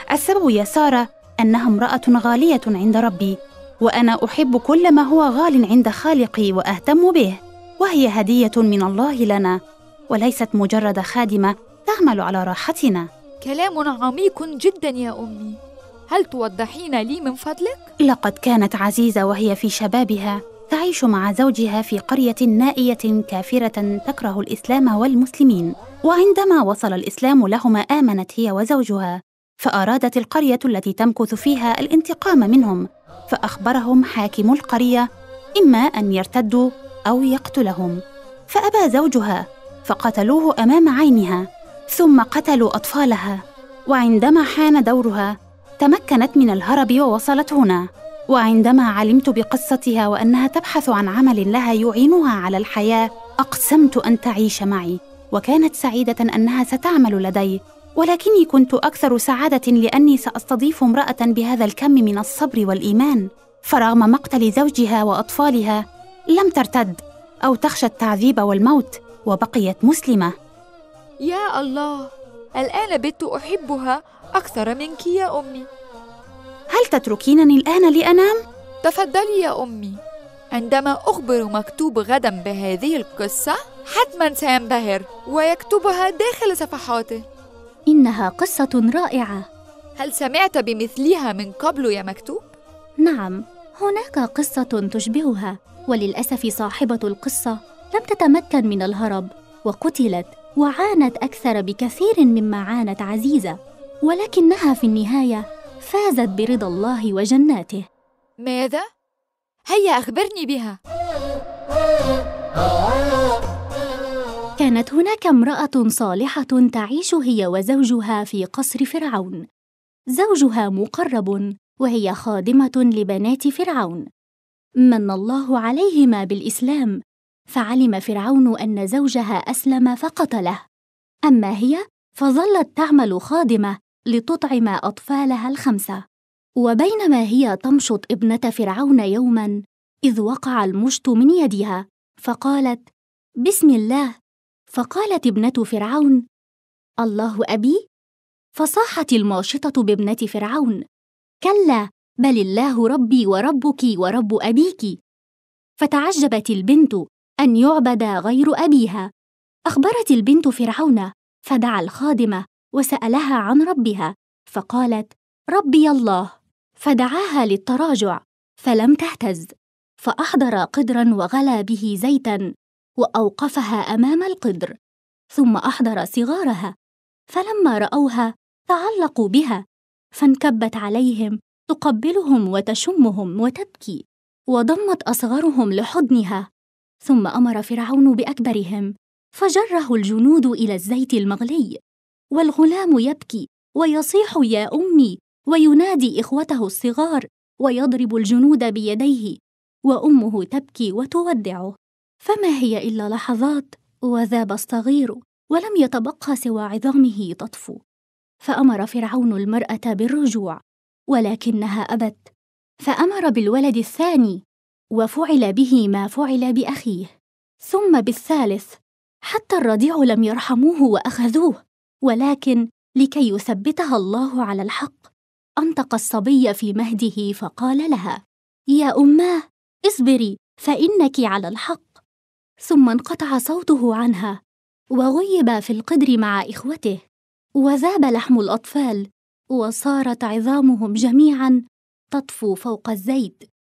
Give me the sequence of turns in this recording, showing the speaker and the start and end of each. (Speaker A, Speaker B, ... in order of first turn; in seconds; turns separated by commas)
Speaker A: 0.1-3.3, Speaker A: 3.8-9.5, Speaker A: 10.1-13.0, Speaker B: 13.4-15.6, Speaker B: 16.1-17.9, Speaker A: 18.1-35.0, Speaker A: 35.6-38.0, Speaker A: 38.5-41.4, Speaker A: 41.9-43.4, Speaker A: 43.9-45.3, Speaker A: 45.8-47.8, Speaker A: 48.3-65.8, Speaker A: 66.3-70.3, Speaker B: 71.2-75.7, Speaker A: 76.8-78.3, Speaker B: 78.8-80.0, Speaker B: 80.5-87.2, Speaker C: 87.9-89.4, Speaker B: 90.0-92.5, Speaker C: 93.0-107.8, Speaker B: 108.4-108.8, Speaker B: 109.7-110.8, Speaker C: 114.6-119.4, Speaker C: 120.2-124.0, Speaker C: 124.9-127.0, Speaker C: 127.5-130.6, Speaker C: 131.3-136.0, Speaker C: 136.6-139.5, Speaker C: 140.1-142.9, Speaker C: 143.4-144.1, Speaker C: 144.7-146.2, Speaker C: 147.0-147.8, Speaker C: 148.6-150.8, Speaker C: 151.4-154.9, Speaker C: 155.8-159.1, Speaker C: 159.7-172.4, Speaker C: 173.0-174.7, Speaker C: 175.3-176.7, Speaker C: 177.3-179.6, Speaker C: 180.2-184.0, Speaker C: 184.5-186.4, Speaker C: 187.1-191.8, Speaker C: 192.4-199.4, Speaker C: 199.9-207.8, Speaker C: 208.4-210.6, Speaker C: 211.1-212.3, Speaker C: 212.9-214.4, Speaker C: 214.9-217.1, Speaker C: 217.6-218.8, Speaker C: 219.3-225.1, Speaker C: 225.6-228.2, Speaker C: 228.8-232.0, Speaker C: 232.7-234.4, Speaker C: 234.9-237.0, Speaker C: 237.6-241.6, Speaker C: 242.1-243.5